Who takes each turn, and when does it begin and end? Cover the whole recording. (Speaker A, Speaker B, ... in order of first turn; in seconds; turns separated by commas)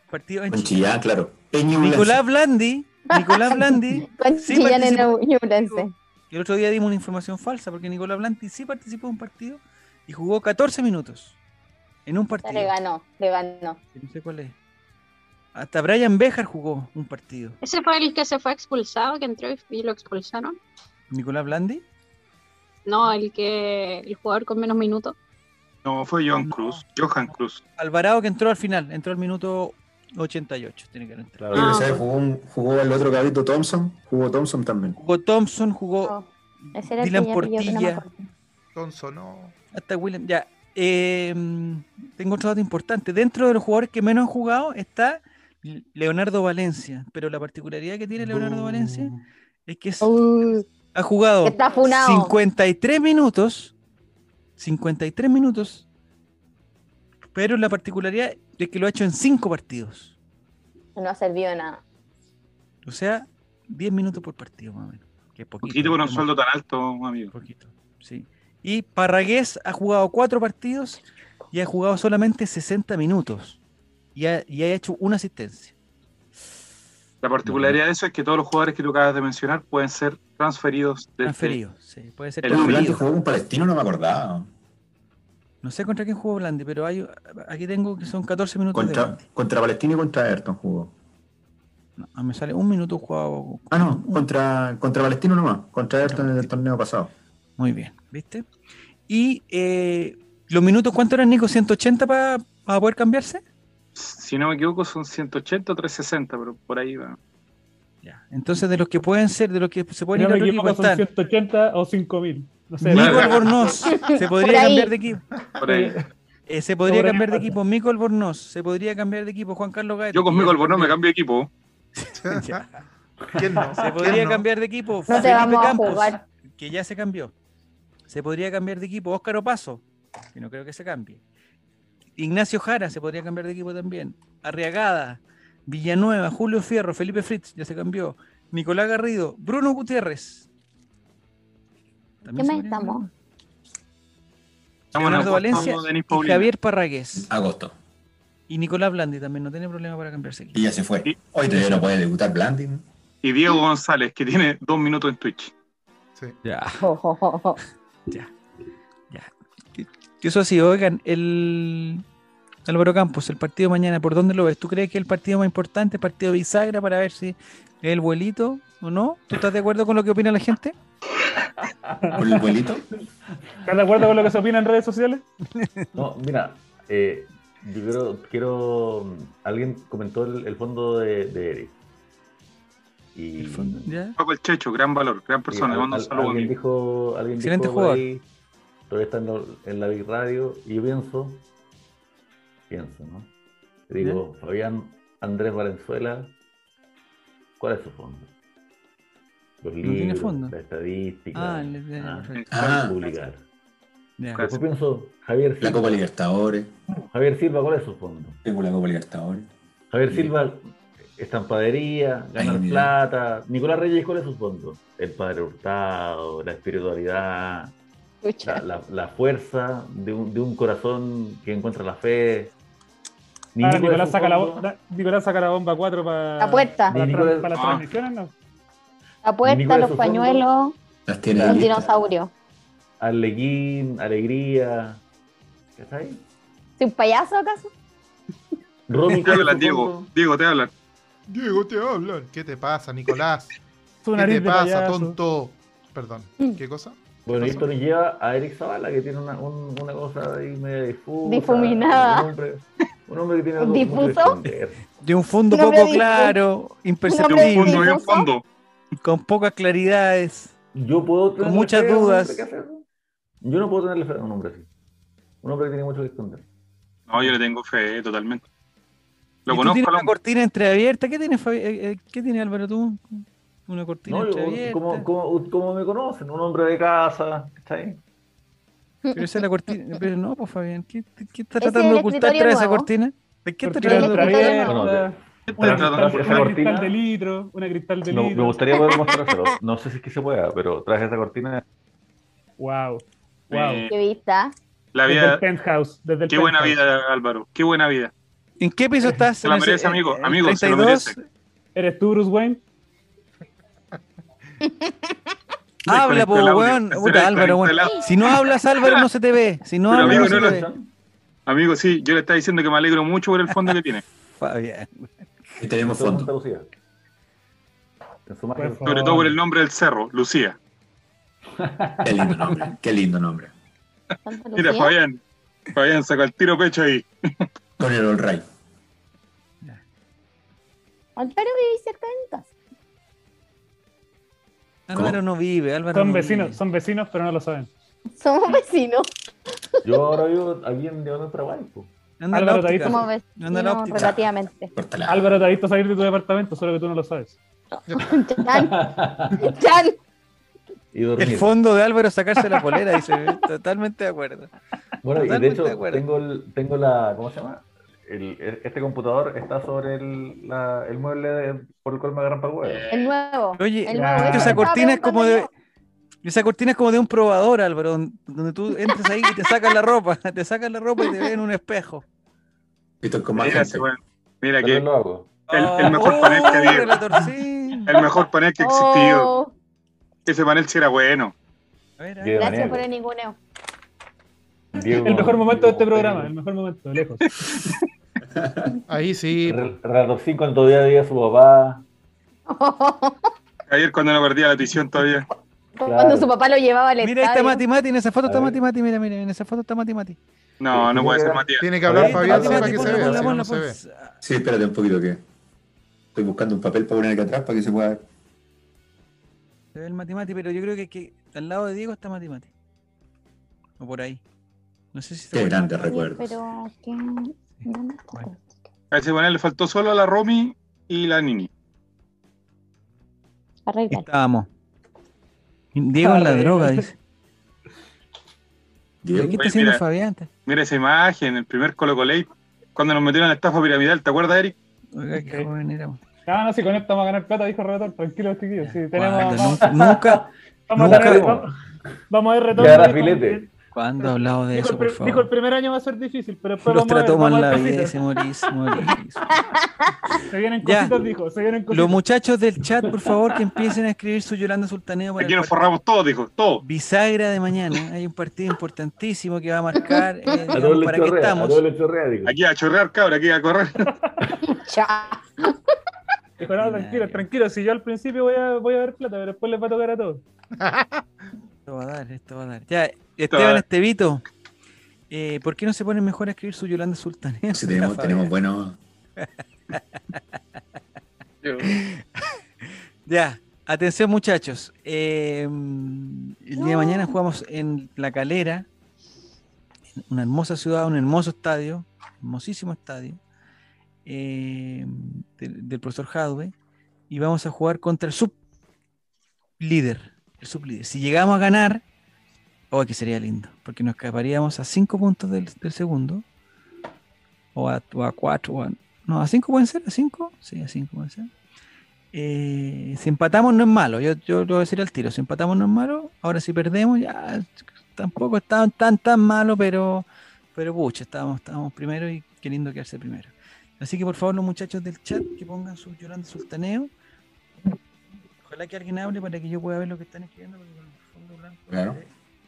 Speaker A: 0.1-0.9, Speaker B: 0.5-2.2, Speaker A: 1.7-11.4, Speaker C: 3.1-5.9, Speaker A: 12.1-12.7, Speaker C: 12.4-13.8, Speaker A: 13.9-14.5, Speaker A: 15.5-17.6, Speaker D: 17.6-20.6, Speaker A: 21.1-21.8, Speaker D: 22.9-25.1, Speaker E: 25.8-27.6, Speaker A: 26.4-26.8, Speaker A: 27.8-31.5, Speaker F: 31.4-32.0, Speaker B: 31.5-35.0, Speaker A: 35.0-36.1, Speaker C: 36.0-38.3, Speaker A: 36.6-38.0, Speaker G: 38.7-39.5, Speaker A: 39.7-49.1, Speaker G: 48.3-49.1, Speaker A: 49.6-50.1, Speaker C: 50.0-50.6, Speaker A: 50.9-53.7, Speaker C: 51.4-52.3, Speaker A: 54.6-55.9, Speaker A: 57.3-60.1, Speaker C: 61.0-61.8, Speaker A: 62.8-66.3, Speaker E: 65.6-67.3, Speaker A: 67.3-71.0, Speaker A: 71.5-73.6, Speaker A: 74.1-75.7, Speaker E: 77.2-81.6, Speaker A: 77.5-77.8, Speaker A: 81.2-83.0, Speaker E: 82.4-83.0, Speaker B: 82.5-84.5, Speaker A: 85.6-89.2, Speaker B: 88.7-90.9, Speaker A: 92.0-94.2, Speaker B: 93.7-97.1, Speaker A: 96.0-96.5, Speaker A: 97.6-98.5, Speaker A: 99.1-103.4, Speaker E: 104.0-107.2, Speaker A: 108.0-111.0, Speaker H: 110.1-113.4, Speaker A: 112.8-115.2, Speaker E: 112.9-113.8, Speaker C: 113.8-115.0, Speaker E: 115.6-116.0, Speaker F: 115.7-116.0, Speaker A: 116.5-121.0, Speaker H: 116.9-117.2, Speaker E: 120.1-121.5, Speaker A: 122.0-122.8, Speaker G: 122.2-122.7, Speaker F: 123.3-124.2, Speaker G: 123.3-124.5, Speaker A: 123.8-127.3, Speaker C: 125.1-126.2, Speaker F: 125.2-125.5, Speaker A: 128.1-129.8, Speaker A: 130.3-131.2, Speaker A: 132.2-140.5, Speaker A: 142.2-143.1, Speaker C: 142.2-143.1, Speaker E: 144.9-146.5, Speaker A: 144.9-147.3, Speaker B: 147.1-147.7, Speaker A: 148.5-150.6, Speaker B: 150.5-152.8, Speaker E: 153.2-155.5, Speaker A: 156.4-156.9, Speaker C: 156.8-157.6, Speaker A: 159.1-162.0, Speaker A: 162.7-170.7, Speaker F: 171.6-172.4, Speaker H: 172.1-172.6, Speaker B: 172.1-172.8, Speaker H: 173.7-175.2, Speaker A: 175.5-175.9, Speaker F: 175.9-181.7, Speaker F: 183.1-183.9, Speaker A: 183.4-184.2, Speaker E: 184.2-186.5, Speaker F: 185.5-188.2, Speaker A: 187.4-188.0, Speaker F: 188.9-191.4, Speaker F: 192.7-193.3, Speaker F: 193.9-196.3, Speaker F: 197.6-198.3, Speaker F: 199.6-203.4, Speaker A: 199.8-200.6, Speaker A: 201.3-202.5, Speaker B: 202.5-203.0, Speaker A: 204.2-204.4, Speaker E: 204.3-204.6, Speaker F: 204.4-206.0, Speaker B: 205.6-206.7, Speaker F: 207.1-208.4, Speaker B: 208.4-209.5, Speaker F: 209.9-217.7, Speaker B: 210.1-210.3, Speaker B: 212.3-213.0, Speaker C: 218.2-218.6, Speaker F: 218.4-222.5, Speaker F: 223.5-224.7, Speaker H: 223.6-228.3, Speaker C: 226.4-227.1, Speaker F: 226.9-227.6, Speaker E: 227.5-227.8, Speaker C: 229.2-230.7, Speaker F: 229.4-230.4, Speaker B: 231.1-231.9, Speaker F: 231.3-231.7, Speaker C: 231.4-232.3, Speaker F: 233.0-235.0, Speaker F: 235.7-236.2, Speaker C: 236.8-237.7, Speaker F: 238.9-240.1, Speaker E: 239.1-240.7, Speaker G: 241.3-243.5, Speaker H: 244.0-245.2, Speaker G: 244.1-247.0, Speaker F: 247.2-254.8, Speaker C: 251.2-252.3, Speaker C: 253.6-254.4, Speaker A: 255.0-258.0, Speaker C: 255.5-256.4, Speaker C: 257.1-258.3, Speaker E: 257.3-258.4, Speaker A: 259.0-260.5, Speaker F: 260.7-262.8, Speaker A: 261.4-262.4, Speaker F: 263.4-264.7, Speaker F: 265.4-266.5, Speaker E: 267.1-268.4, Speaker E: 269.4-270.1, Speaker A: 269.5-275.1, Speaker F: 274.1-278.0, Speaker C: 279.1-279.4, Speaker A: 279.1-284.6, Speaker C: 281.6-282.9, Speaker H: 283.6-288.8, Speaker C: 283.8-284.8, Speaker F: 284.6-287.0, Speaker E: 285.5-286.5, Speaker F: 288.0-291.6, Speaker C: 288.7-289.6, Speaker H: 292.6-293.9, Speaker E: 293.5-293.9, Speaker C: 293.9-294.5, Speaker E: 294.9-295.4, Speaker H: 295.1-296.8, Speaker E: 296.3-298.1, Speaker A: 298.6-301.2, Speaker E: 299.4-301.1, Speaker H: 301.7-302.6, Speaker C: 304.6-304.9, Speaker E: 305.9-309.0, Speaker A: 305.9-310.7, Speaker E: 309.9-310.5, Speaker F: 309.9-310.9, Speaker E: 311.5-314.0, Speaker A: 313.5-315.1, Speaker B: 315.6-316.3, Speaker F: 315.8-316.7, Speaker F: 318.2-319.4, Speaker H: 318.6-319.2, Speaker E: 318.9-320.6, Speaker F: 321.6-322.7, Speaker B: 322.0-323.5, Speaker C: 324.2-324.9, Speaker E: 324.6-325.2, Speaker E: 325.7-327.4, Speaker B: 327.8-328.4, Speaker C: 331.2-332.5, Speaker A: 334.9-336.6, Speaker H: 335.9-337.7, Speaker C: 338.2-339.1, Speaker F: 339.8-341.9, Speaker A: 342.2-344.1, Speaker H: 342.3-343.1, Speaker C: 342.8-344.7, Speaker B: 343.9-345.3, Speaker H: 345.1-347.4, Speaker C: 347.9-348.8, Speaker G: 347.9-348.1, Speaker F: 348.5-349.6, Speaker C: 349.3-350.0, Speaker F: 350.9-351.5, Speaker A: 351.2-354.5, Speaker F: 355.0-362.9, Speaker A: 355.1-356.0, Speaker E: 362.6-363.1, Speaker C: 362.9-365.5, Speaker A: 363.6-365.5, Speaker H: 363.9-364.6, Speaker A: 366.2-372.0, Speaker B: 373.0-373.9, Speaker E: 373.4-374.8, Speaker F: 374.6-375.4, Speaker A: 375.5-377.9, Speaker E: 375.5-377.0, Speaker E: 377.9-379.3, Speaker C: 378.6-379.5, Speaker E: 380.2-381.3, Speaker A: 382.0-382.4, Speaker F: 382.2-382.9, Speaker C: 382.4-383.4, Speaker F: 384.7-386.3, Speaker H: 384.8-387.2, Speaker B: 388.3-388.7, Speaker G: 388.9-389.7, Speaker F: 389.4-391.8, Speaker C: 392.5-393.3, Speaker E: 393.7-395.3, Speaker C: 395.8-397.6, Speaker F: 395.8-396.3, Speaker A: 397.0-400.2, Speaker F: 398.2-398.6, Speaker E: 400.6-401.6, Speaker F: 400.7-403.4, Speaker G: 401.6-403.8, Speaker A: 401.9-404.1, Speaker B: 404.2-405.2, Speaker B: 406.1-408.0, Speaker A: 409.7-412.5, Speaker A: 413.8-414.2, Speaker A: 414.9-416.1, Speaker B: 415.3-416.4, Speaker C: 415.8-418.6, Speaker A: 417.6-418.3, Speaker E: 418.9-421.5, Speaker C: 423.7-424.1, Speaker A: 423.9-424.5, Speaker A: 425.7-426.9, Speaker H: 426.0-426.8, Speaker B: 429.0-429.4, Speaker A: 429.1-430.3, Speaker E: 429.4-429.8, Speaker E: 430.4-434.5, Speaker A: 434.9-436.0, Speaker H: 435.1-435.5, Speaker H: 436.3-439.7, Speaker A: 438.6-441.3, Speaker F: 439.6-441.5, Speaker H: 440.7-441.5, Speaker H: 442.1-443.5, Speaker F: 442.5-443.4, Speaker A: 443.7-445.3, Speaker H: 444.0-448.0, Speaker A: 446.6-449.4, Speaker C: 449.5-449.9, Speaker H: 450.3-452.0, Speaker A: 450.6-450.9, Speaker A: 451.7-455.7, Speaker E: 455.2-456.6, Speaker A: 456.6-461.6, Speaker C: 459.8-460.7, Speaker F: 460.5-462.4, Speaker E: 462.2-463.9, Speaker C: 464.4-465.6, Speaker H: 466.4-470.2, Speaker A: 466.6-467.3, Speaker G: 470.6-471.0, Speaker A: 471.6-474.2, Speaker E: 473.3-473.6, Speaker A: 475.1-478.3, Speaker B: 477.5-478.8, Speaker A: 479.2-480.2, Speaker E: 481.4-481.8, Speaker A: 481.6-488.7, Speaker C: 486.6-487.1, Speaker A: 490.1-493.2, Speaker A: 494.0-496.5, Speaker A: 497.1-498.3, Speaker A: 499.6-501.8, Speaker A: 502.7-506.2, Speaker A: 507.5-511.3, Speaker A: 512.1-526.9, Speaker A: 528.4-532.1, Speaker B: 531.7-532.0